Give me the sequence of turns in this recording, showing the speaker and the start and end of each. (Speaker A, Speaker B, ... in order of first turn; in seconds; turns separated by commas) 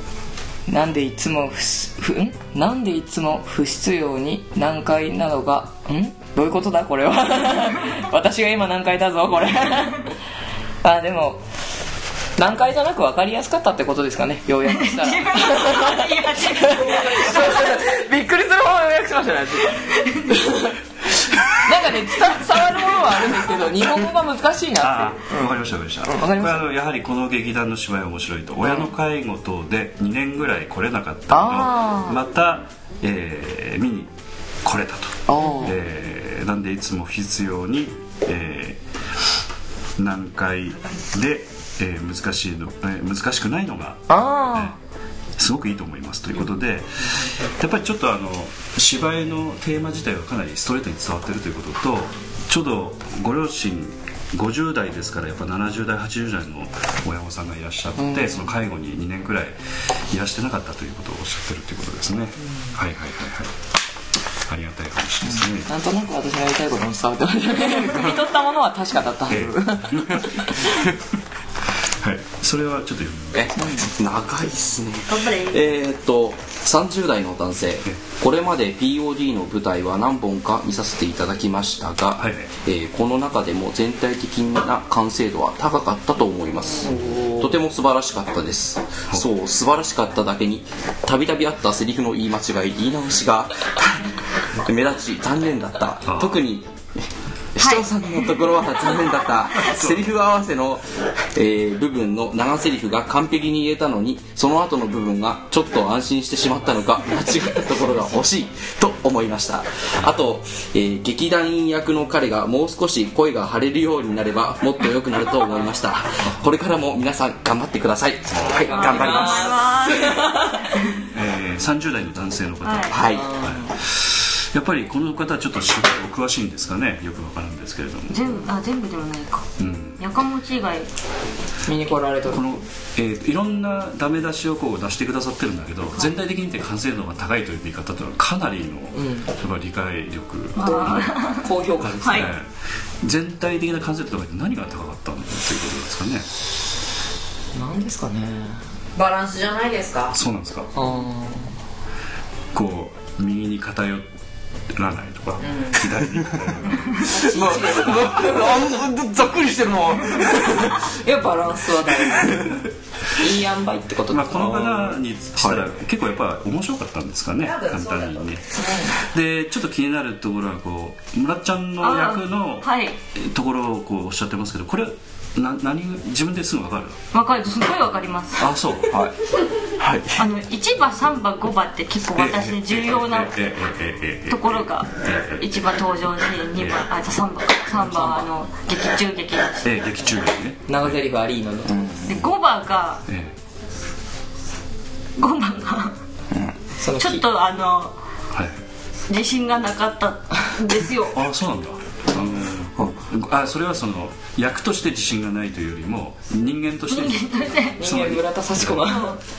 Speaker A: 0.7-10.1, Speaker A: 10.8-11.4, Speaker A: 12.4-26.6, Speaker B: 14.6-17.8, Speaker B: 19.9-20.5, Speaker C: 24.8-34.1, Speaker A: 28.6-28.9, Speaker A: 31.3-32.2, Speaker C: 34.6-38.8, Speaker A: 35.3-35.8, Speaker C: 40.0-44.8, Speaker A: 44.1-44.8, Speaker C: 45.4-63.5, Speaker A: 58.0-58.5, Speaker C: 64.5-65.7, Speaker A: 65.2-70.8, Speaker C: 69.3-71.0, Speaker C: 72.0-73.5, Speaker D: 73.3-94.0, Speaker A: 73.6-73.9, Speaker B: 75.1-75.6, Speaker C: 82.2-82.5, Speaker A: 86.8-87.5, Speaker D: 94.5-119.8, Speaker C: 96.0-96.4, Speaker B: 97.6-97.9, Speaker C: 99.6-100.0, Speaker C: 118.3-118.6, Speaker A: 118.5-120.7, Speaker B: 118.7-121.0, Speaker C: 121.1-128.2, Speaker B: 122.6-122.9, Speaker D: 122.9-123.3, Speaker A: 123.1-123.7, Speaker B: 128.1-129.5, Speaker C: 129.6-130.0, Speaker B: 130.0-130.9, Speaker A: 131.7-132.4, Speaker C: 132.3-141.2, Speaker A: 138.9-139.3, Speaker B: 140.6-141.5, Speaker A: 140.6-142.3, Speaker C: 141.8-142.5, Speaker B: 142.0-142.3, Speaker C: 143.0-146.3, Speaker A: 147.5-148.6, Speaker E: 148.9-150.1, Speaker C: 150.1-150.7, Speaker A: 150.7-151.5, Speaker C: 152.5-154.0, Speaker C: 154.7-157.2, Speaker A: 156.9-158.8, Speaker D: 157.2-160.9, Speaker A: 160.8-162.6, Speaker D: 162.1-162.5, Speaker A: 163.2-164.5, Speaker C: 164.1-177.0, Speaker D: 164.3-165.7, Speaker E: 167.4-168.7, Speaker A: 168.7-168.9, Speaker B: 171.8-172.9, Speaker B: 177.1-178.5, Speaker C: 178.4-179.0, Speaker D: 178.9-179.1, Speaker D: 179.7-180.2, Speaker B: 180.2-183.3, Speaker C: 182.2-185.6, Speaker B: 184.3-189.7, Speaker A: 187.8-188.3, Speaker C: 189.6-191.0, Speaker A: 190.7-192.0, Speaker D: 191.7-192.1, Speaker B: 192.1-193.0, Speaker C: 193.1-193.3, Speaker B: 195.2-196.0, Speaker A: 196.8-197.2, Speaker B: 197.0-197.9, Speaker C: 198.3-198.6, Speaker B: 199.1-201.2, Speaker C: 201.1-208.8, Speaker B: 206.9-207.8, Speaker A: 207.8-209.2, Speaker B: 208.8-209.2